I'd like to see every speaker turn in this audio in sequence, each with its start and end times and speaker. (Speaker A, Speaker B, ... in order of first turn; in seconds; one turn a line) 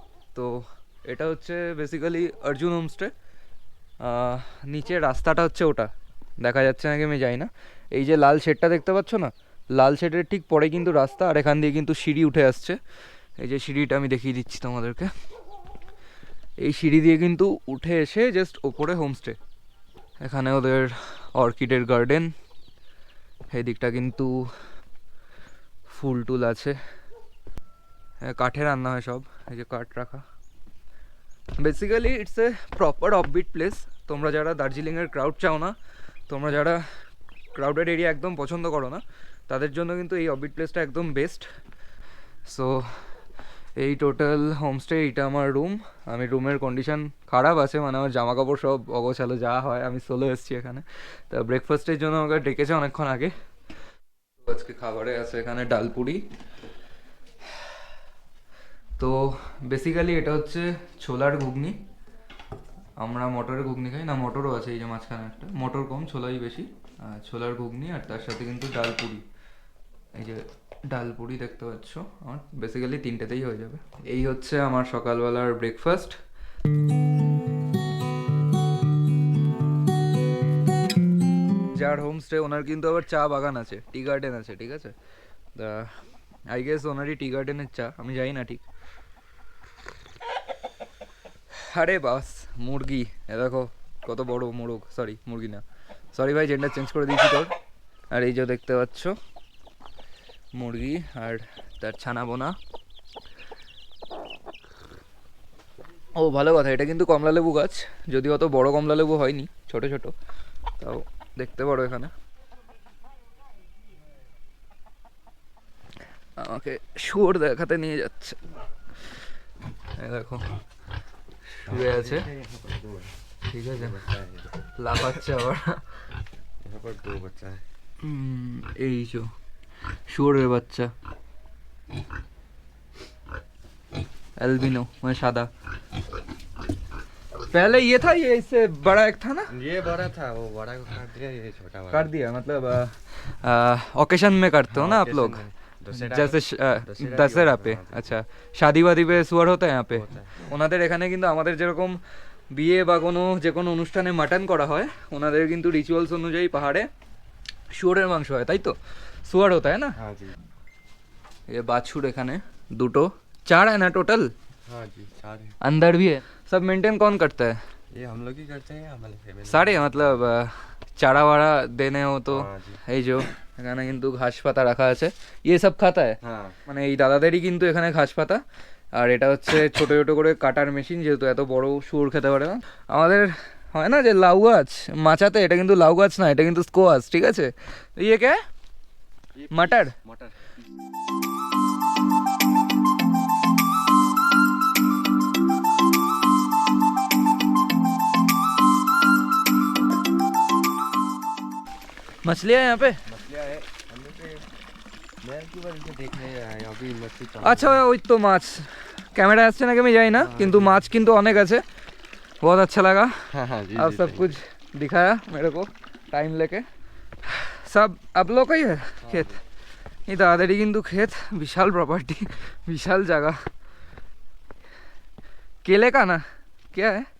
Speaker A: 0.3-3.1
Speaker A: 4.0-12.8
Speaker A: 13.4-15.1
Speaker A: 16.6-19.4
Speaker A: 20.2-22.3
Speaker A: 23.5-24.5
Speaker A: 25.9-26.8
Speaker A: 28.2-30.2
Speaker A: 31.6-35.7
Speaker A: 36.3-36.8
Speaker A: 37.5-41.5
Speaker A: 42.4-43.0
Speaker A: 43.8-53.3
Speaker A: 54.4-56.2
Speaker A: 59.0-61.8
Speaker A: 63.0-69.2
Speaker A: 70.1-76.2
Speaker A: 81.7-84.9
Speaker A: 85.5-88.6
Speaker A: 91.5-97.5
Speaker A: 98.1-99.2
Speaker A: 100.5-102.6
Speaker A: 106.2-110.1
Speaker A: 110.8-112.1
Speaker A: 116.4-118.4
Speaker A: 120.0-120.4
Speaker A: 121.5-122.2
Speaker B: 121.7-123.1
Speaker A: 123.5-124.0
Speaker B: 123.7-124.5
Speaker A: 124.8-125.8
Speaker B: 126.6-127.6
Speaker A: 128.0-129.3
Speaker A: 130.1-130.9
Speaker A: 134.4-135.5
Speaker A: 137.4-139.5
Speaker B: 139.5-142.1
Speaker A: 141.9-152.0
Speaker B: 144.7-148.2
Speaker B: 149.9-150.4
Speaker A: 152.5-156.9
Speaker A: 157.7-159.9
Speaker B: 160.0-160.3
Speaker A: 161.5-164.3
Speaker B: 164.7-165.5
Speaker A: 165.6-167.6
Speaker B: 167.9-170.2
Speaker A: 169.4-178.4
Speaker B: 172.3-172.8
Speaker B: 176.2-176.6
Speaker A: 178.9-188.4
Speaker B: 189.4-190.6
Speaker A: 189.5-189.9
Speaker A: 202.2-203.0
Speaker B: 203.1-204.5
Speaker B: 205.2-207.8
Speaker A: 207.4-211.6
Speaker B: 210.2-210.9
Speaker A: 212.4-213.2
Speaker B: 213.3-214.3
Speaker A: 213.7-216.7
Speaker A: 217.2-219.3
Speaker B: 219.0-219.3
Speaker A: 220.1-223.4
Speaker A: 225.6-227.1